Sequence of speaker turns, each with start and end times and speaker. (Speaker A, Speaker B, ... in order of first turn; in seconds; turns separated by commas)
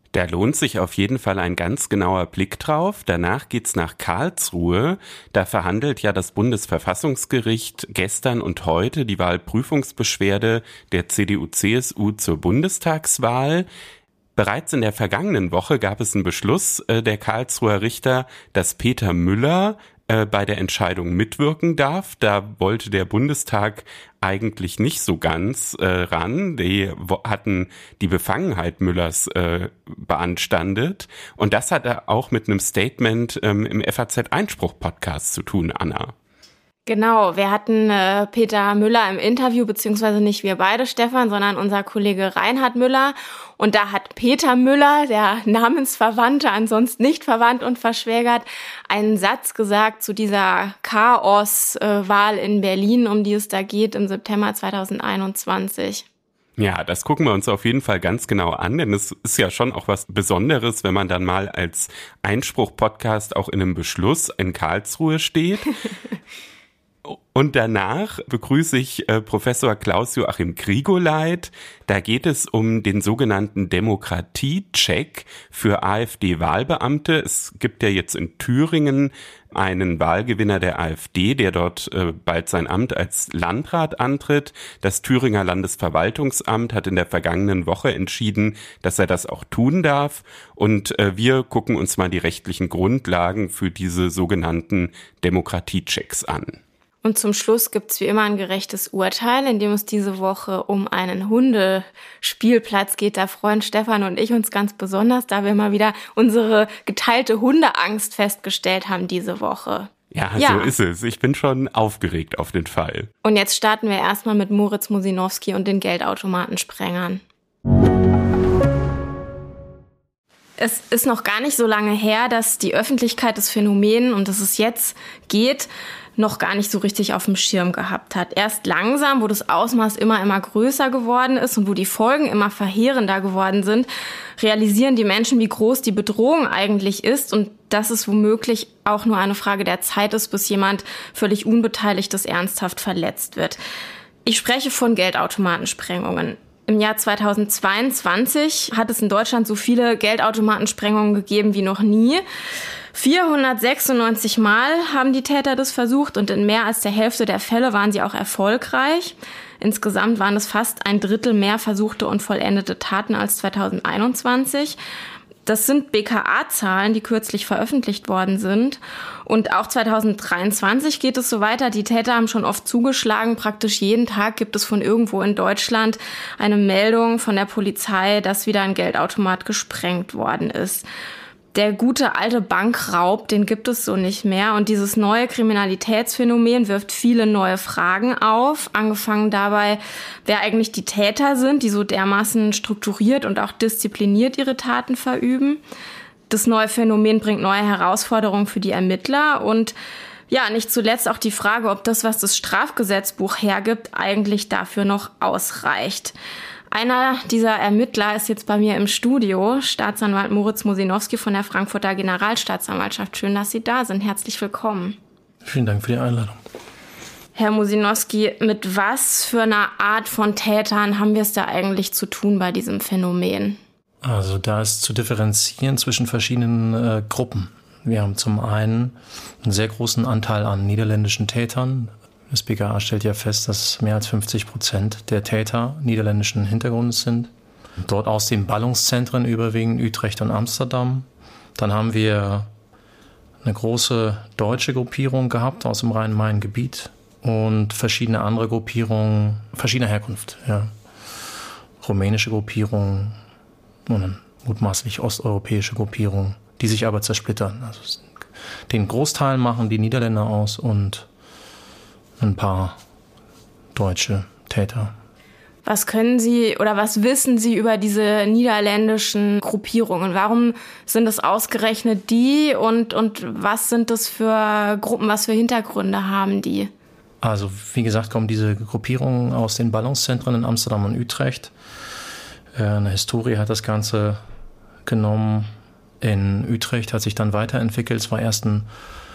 Speaker A: 0.1-13.7, Speaker A: 14.3-36.1, Speaker B: 36.9-56.0, Speaker A: 56.6-65.7, Speaker A: 67.1-96.6, Speaker B: 97.0-110.7, Speaker A: 110.1-113.1, Speaker B: 113.2-117.2, Speaker B: 120.6-143.6, Speaker B: 144.2-152.2, Speaker B: 152.9-164.8, Speaker B: 165.4-180.8, Speaker B: 181.5-195.6, Speaker B: 196.3-199.7, Speaker B: 200.3-206.1, Speaker B: 206.7-215.0, Speaker C: 215.4-216.4, Speaker B: 217.3-223.6, Speaker C: 224.0-237.3, Speaker C: 237.8-242.5, Speaker C: 243.4-250.7, Speaker C: 251.8-253.2, Speaker C: 253.9-258.0, Speaker C: 258.7-261.1, Speaker C: 262.2-262.8, Speaker C: 263.7-264.9, Speaker B: 265.6-276.7, Speaker C: 277.2-281.5, Speaker C: 282.6-284.2, Speaker C: 284.9-285.5, Speaker C: 286.0-288.7